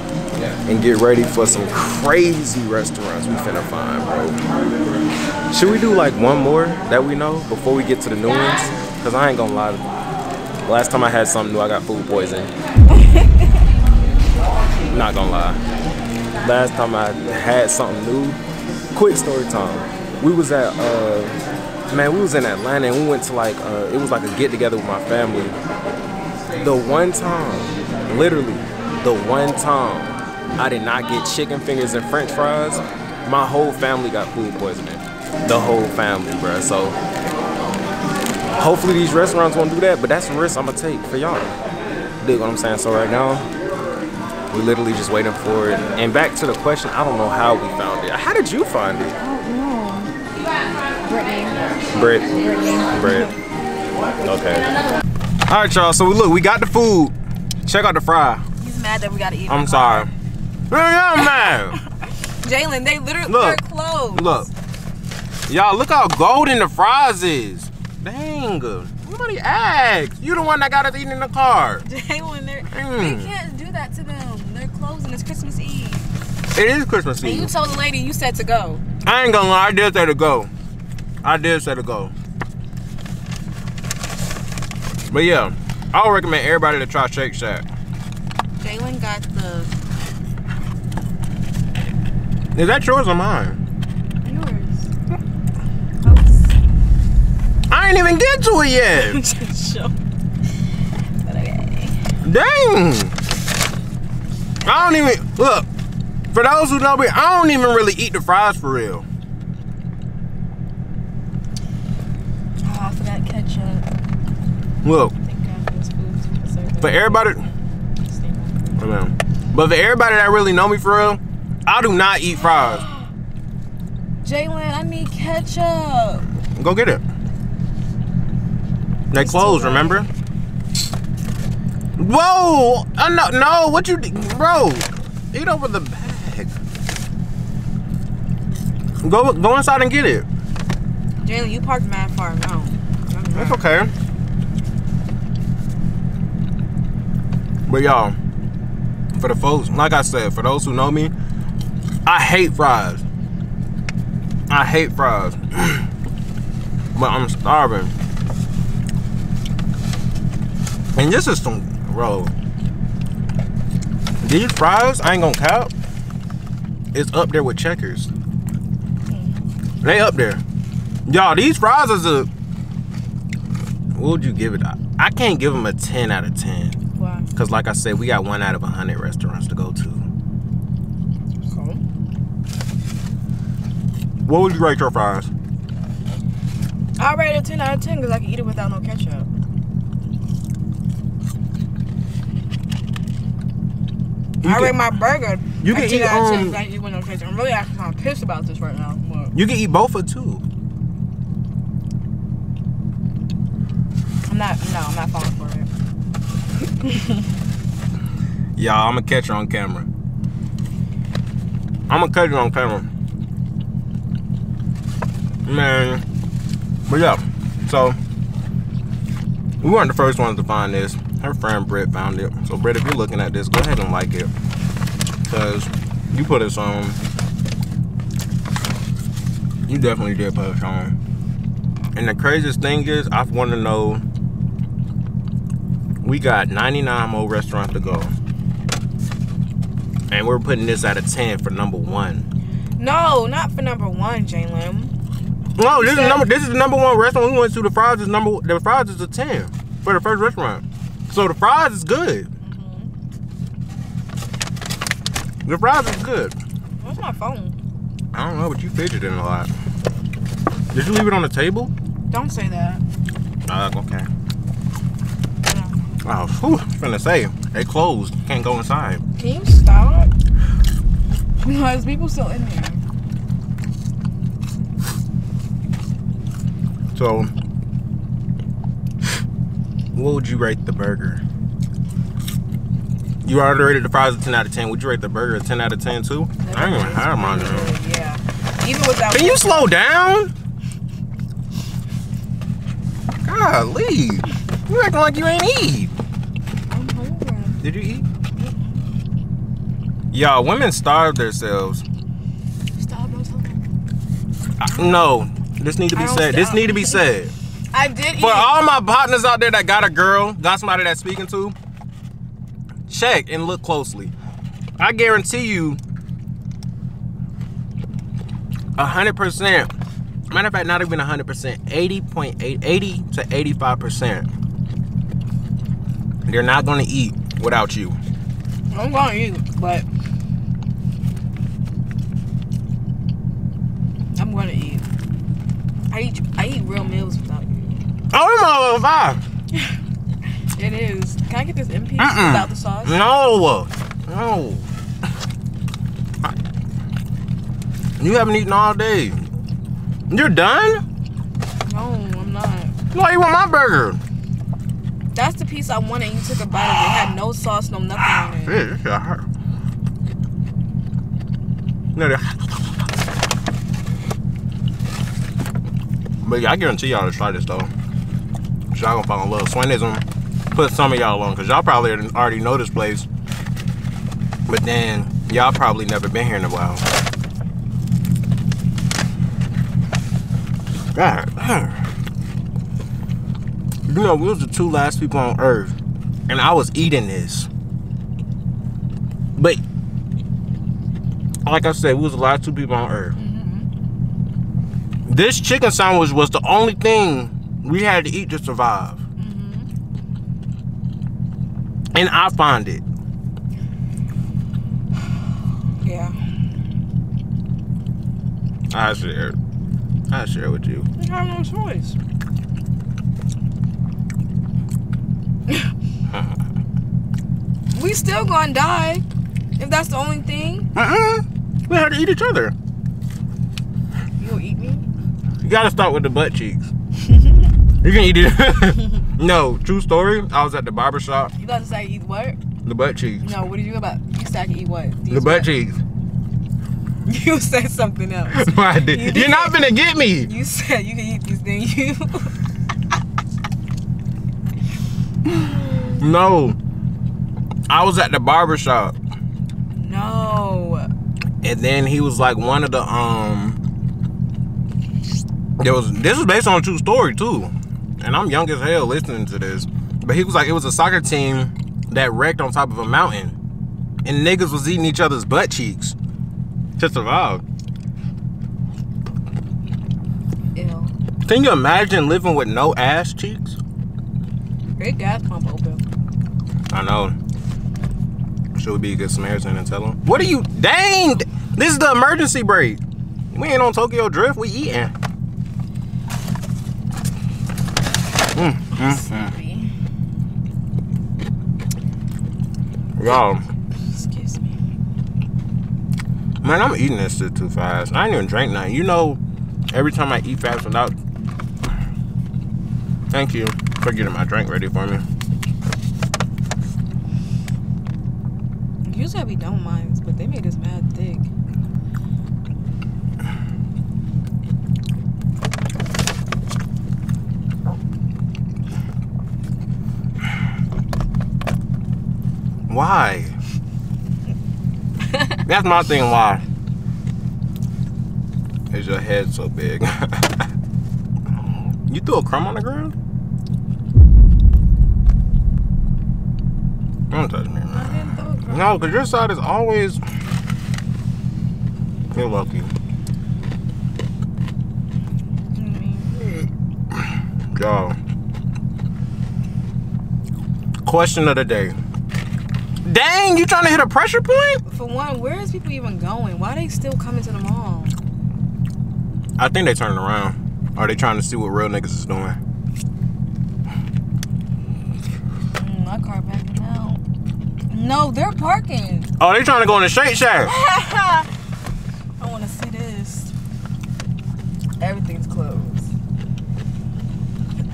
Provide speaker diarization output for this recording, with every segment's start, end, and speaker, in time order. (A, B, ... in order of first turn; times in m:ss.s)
0:00.3-0:04.4 A
0:05.5-0:09.8 A
0:10.6-0:12.5 A
0:12.9-0:13.4 B
0:14.9-0:15.6 A
0:16.4-0:18.4 A
0:18.9-0:21.4 A
0:21.9-0:25.6 A
0:26.6-0:37.0 A
0:38.6-0:41.5 A
0:42.2-0:43.5 A
0:44.5-0:49.2 A
0:49.2-0:50.1 B
0:51.0-0:51.8 B
0:51.9-0:52.3 A
0:52.4-0:53.1 B
0:52.9-0:53.3 A
0:54.2-0:54.7 A
0:55.5-0:58.4 A
0:58.6-1:00.1 B
0:59.5-1:00.1 A
1:00.7-1:01.8 A
1:01.3-1:01.5 B
1:02.4-1:04.5 B
1:03.3-1:04.5 A
1:05.5-1:11.8 A
1:11.8-1:16.1 B
1:12.7-1:13.3 A
1:16.5-1:17.5 A
1:17.2-1:18.8 B
1:19.0-1:20.5 A
1:21.2-1:22.1 A
1:25.1-1:27.6 A
1:28.6-1:29.7 B
1:32.5-1:33.6 A
1:34.2-1:34.9 B
1:36.0-1:36.6 B
1:37.7-1:39.2 A
1:38.9-1:40.0 B
1:41.2-1:42.0 B
1:42.2-1:43.1 A
1:44.6-1:45.6 A
1:46.3-1:49.0 A
1:52.6-1:53.9 B
1:54.8-1:55.1 A
1:55.2-1:58.8 B
1:56.8-1:57.4 A
1:58.8-2:02.8 A
2:02.4-2:03.1 B
2:04.2-2:06.2 B
2:06.6-2:07.0 A
2:09.1-2:10.1 A
2:09.1-2:10.1 B
2:12.0-2:16.5 A
2:19.0-2:20.2 A
2:21.2-2:23.9 B
2:23.3-2:23.9 A
2:27.6-2:28.2 A
2:29.1-2:31.1 A
2:32.0-2:33.0 A
2:34.5-2:35.9 A
2:36.9-2:37.9 A
2:40.9-2:42.3 A
2:44.2-2:45.7 A
2:46.9-2:48.1 A
2:49.1-2:49.5 B
2:49.8-2:50.4 A
2:51.1-2:52.3 A
2:53.9-2:56.8 A
2:57.0-2:57.3 B
2:57.3-3:00.1 A
3:01.4-3:01.8 B
3:04.2-3:05.3 A
3:07.0-3:09.3 B
3:14.4-3:14.8 A
3:14.4-3:19.3 B
3:15.6-3:16.6 A
3:19.3-3:20.4 A
3:24.3-3:25.7 B
3:26.8-3:27.3 B
3:28.6-3:29.9 A
3:31.9-3:32.9 A
3:35.4-3:36.0 A
3:36.9-3:38.0 A
3:39.6-3:44.3 A
3:45.2-3:47.0 A
3:49.7-3:50.9 A
3:51.9-3:54.0 A
3:56.0-3:58.1 A
4:00.1-4:02.2 A
4:02.8-4:04.9 B
4:05.6-4:12.3 A
4:05.7-4:06.3 B
4:12.4-4:12.9 B
4:15.4-4:16.4 A
4:16.8-4:17.6 B
4:18.1-4:19.5 A
4:20.7-4:21.7 A
4:22.1-4:22.8 B
4:23.5-4:24.1 A
4:25.5-4:25.8 B
4:26.0-4:29.0 A
4:29.2-4:30.1 B
4:31.4-4:32.8 B
4:36.9-4:37.3 A
4:39.9-4:41.2 A
4:43.2-4:47.7 A
4:46.4-4:49.7 B
4:49.1-4:50.3 A
4:53.2-4:55.9 A
4:56.7-4:57.6 B
4:57.6-4:58.0 A
4:58.4-4:58.8 B
5:00.1-5:01.8 A
5:02.8-5:03.6 B
5:04.6-5:07.3 A
5:04.6-5:05.0 B
5:05.9-5:07.0 B
5:07.7-5:08.5 B
5:08.2-5:11.6 A
5:12.9-5:14.1 A
5:14.8-5:15.8 A
5:18.8-5:19.7 A
5:20.3-5:24.3 A
5:26.3-5:28.0 A
5:28.7-5:29.8 B
5:34.1-5:34.9 B
5:35.9-5:37.8 B
5:38.1-5:39.2 A
5:40.5-5:43.0 B
5:42.0-5:44.7 A
5:48.0-5:49.2 A
5:50.1-5:50.8 A
5:51.6-5:52.7 B
5:52.9-5:54.0 A
5:55.1-5:58.6 B
5:56.6-5:57.0 A
5:58.0-5:59.2 A
6:01.9-6:02.8 A
6:06.2-6:07.7 A
6:08.7-6:13.1 A
6:14.5-6:16.8 A
6:20.9-6:21.8 A
6:23.9-6:25.8 A
6:26.3-6:27.5 A
6:31.4-6:33.2 A
6:33.2-6:33.7 B
6:35.0-6:39.0 A
6:39.2-6:39.7 B
6:41.9-6:42.8 A
6:45.8-6:46.2 B
6:48.7-6:49.4 A
6:50.1-6:50.9 A
6:51.0-6:52.0 B
6:57.7-6:59.0 B
6:59.6-7:00.7 B
7:00.7-7:02.5 A
7:04.2-7:04.8 B
7:05.4-7:06.7 A
7:07.0-7:07.4 B
7:07.8-7:11.3 A
7:11.4-7:12.4 B
7:12.6-7:13.3 A
7:13.2-7:15.5 B
7:15.1-7:15.8 A
7:17.0-7:19.6 B
7:18.3-7:20.3 A
7:20.2-7:22.3 B
7:25.2-7:26.0 B
7:26.0-7:26.6 A
7:27.7-7:29.0 A
7:29.7-7:30.9 B
7:31.4-7:33.6 A
7:35.6-7:43.4 A
7:44.0-7:46.0 A
7:46.8-7:47.4 A
7:50.5-7:50.9 B
7:51.2-7:53.6 A
7:54.8-7:55.8 B
7:56.7-7:57.1 A
7:58.5-8:02.8 A
8:03.3-8:04.9 A
8:08.3-8:09.3 A
8:08.7-8:09.7 B
8:13.0-8:13.4 A
8:13.7-8:14.5 B
8:16.4-8:19.2 A
8:19.7-8:21.0 A
8:23.1-8:25.0 A
8:28.8-8:31.3 B
8:42.7-8:43.4 A
8:45.4-8:46.4 A
8:48.7-8:50.5 A
8:51.9-8:52.9 A
8:57.1-9:00.0 A
8:57.7-8:59.3 B
9:02.1-9:02.7 A
9:05.5-9:06.4 B
9:07.5-9:08.0 A
9:10.8-9:11.8 A
9:12.8-9:14.6 A
9:14.6-9:17.9 B
9:19.4-9:22.4 A
9:25.5-9:27.0 B
9:27.7-9:29.1 B
9:29.2-9:30.5 A
9:30.4-9:31.3 B
9:32.2-9:33.3 B
9:34.8-9:35.9 B